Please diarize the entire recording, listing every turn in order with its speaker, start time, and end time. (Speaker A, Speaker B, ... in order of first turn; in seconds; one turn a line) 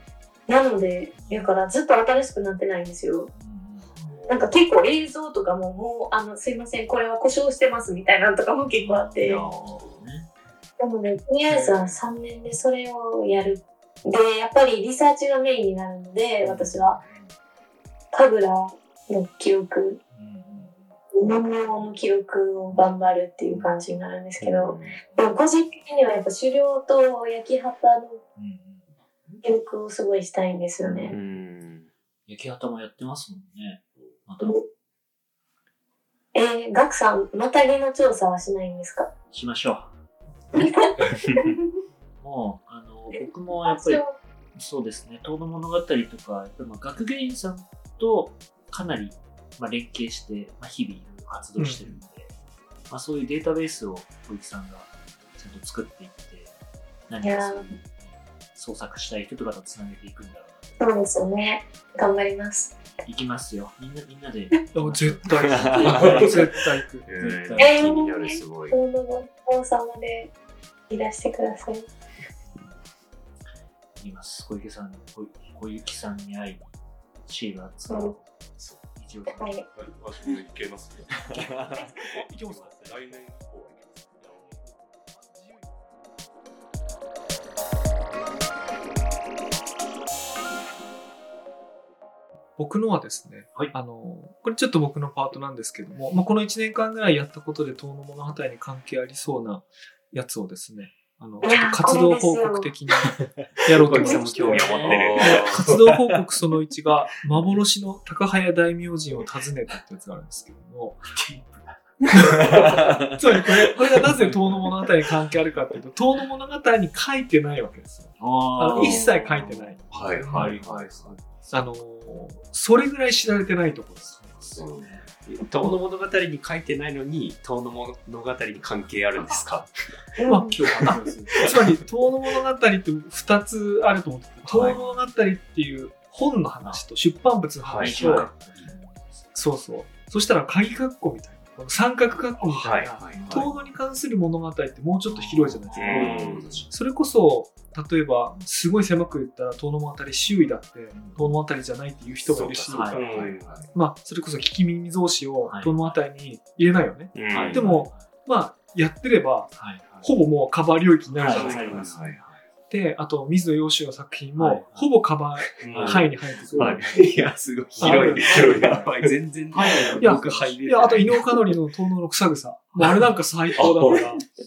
Speaker A: 0.5-3.3
Speaker B: 1.1-1.5
Speaker B: 3.3-4.0
Speaker C: 4.0-4.5
Speaker A: 4.3-9.4
Speaker B: 8.7-10.3
Speaker C: 9.3-10.0
Speaker A: 10.8-17.0
Speaker B: 11.5-12.0
Speaker B: 16.4-17.4
Speaker A: 18.1-20.0
Speaker B: 20.1-21.0
Speaker A: 21.1-28.2
Speaker B: 23.5-23.8
Speaker D: 24.4-25.0
Speaker B: 24.9-25.3
Speaker B: 28.4-29.4
Speaker A: 29.4-31.1
Speaker B: 30.8-31.2
Speaker D: 31.1-31.9
Speaker B: 32.3-34.6
Speaker A: 36.3-39.1
Speaker B: 39.3-39.9
Speaker A: 40.6-41.4
Speaker B: 42.2-52.3
Speaker A: 43.1-44.2
Speaker B: 52.9-56.5
Speaker B: 57.1-60.9
Speaker A: 57.2-57.8
Speaker A: 60.8-62.8
Speaker B: 63.0-66.4
Speaker E: 64.7-67.1
Speaker D: 65.6-66.1
Speaker C: 65.9-66.4
Speaker D: 67.0-68.8
Speaker B: 67.2-67.8
Speaker A: 67.6-70.3
Speaker A: 70.9-71.9
Speaker B: 72.5-72.8
Speaker B: 74.0-78.3
Speaker A: 77.9-78.1
Speaker B: 79.0-79.6
Speaker A: 79.3-79.7
Speaker C: 79.8-81.5
Speaker D: 81.3-82.3
Speaker E: 81.8-83.2
Speaker C: 82.6-84.7
Speaker E: 84.2-86.0
Speaker E: 92.6-111.1
Speaker A: 101.4-102.7
Speaker A: 103.9-104.2
Speaker D: 104.0-105.7
Speaker B: 104.0-105.5
Speaker C: 104.1-105.8
Speaker B: 111.1-112.8
Speaker E: 112.2-120.6
Speaker D: 112.2-113.0
Speaker B: 114.2-114.7
Speaker B: 118.2-121.2
Speaker C: 118.8-119.0
Speaker D: 119.9-121.2
Speaker C: 119.9-121.0
Speaker E: 121.5-124.5
Speaker B: 124.0-125.1
Speaker C: 124.6-124.8
Speaker D: 125.2-130.0
Speaker A: 130.2-130.5
Speaker B: 130.2-131.5
Speaker E: 130.3-138.3
Speaker D: 130.7-131.6
Speaker D: 134.5-134.8
Speaker B: 134.5-135.0
Speaker B: 136.6-136.9
Speaker D: 137.6-138.3
Speaker B: 137.7-139.3
Speaker E: 139.3-161.9
Speaker D: 142.5-143.6
Speaker B: 143.0-143.8
Speaker B: 145.1-146.8
Speaker D: 145.8-146.6
Speaker C: 145.9-146.6
Speaker B: 150.9-151.4
Speaker D: 152.4-153.7
Speaker C: 152.7-153.7
Speaker B: 152.7-153.6
Speaker B: 155.4-156.0
Speaker D: 157.1-157.7
Speaker B: 157.3-158.1
Speaker B: 159.5-160.1
Speaker B: 161.1-162.4
Speaker C: 161.3-162.1
Speaker D: 161.3-162.3
Speaker E: 162.7-166.9
Speaker B: 164.3-164.9
Speaker D: 165.6-166.0
Speaker C: 165.6-166.0
Speaker B: 165.7-171.1
Speaker D: 166.6-171.4
Speaker E: 167.8-168.8
Speaker C: 167.8-168.5
Speaker E: 169.9-174.2
Speaker C: 173.6-174.0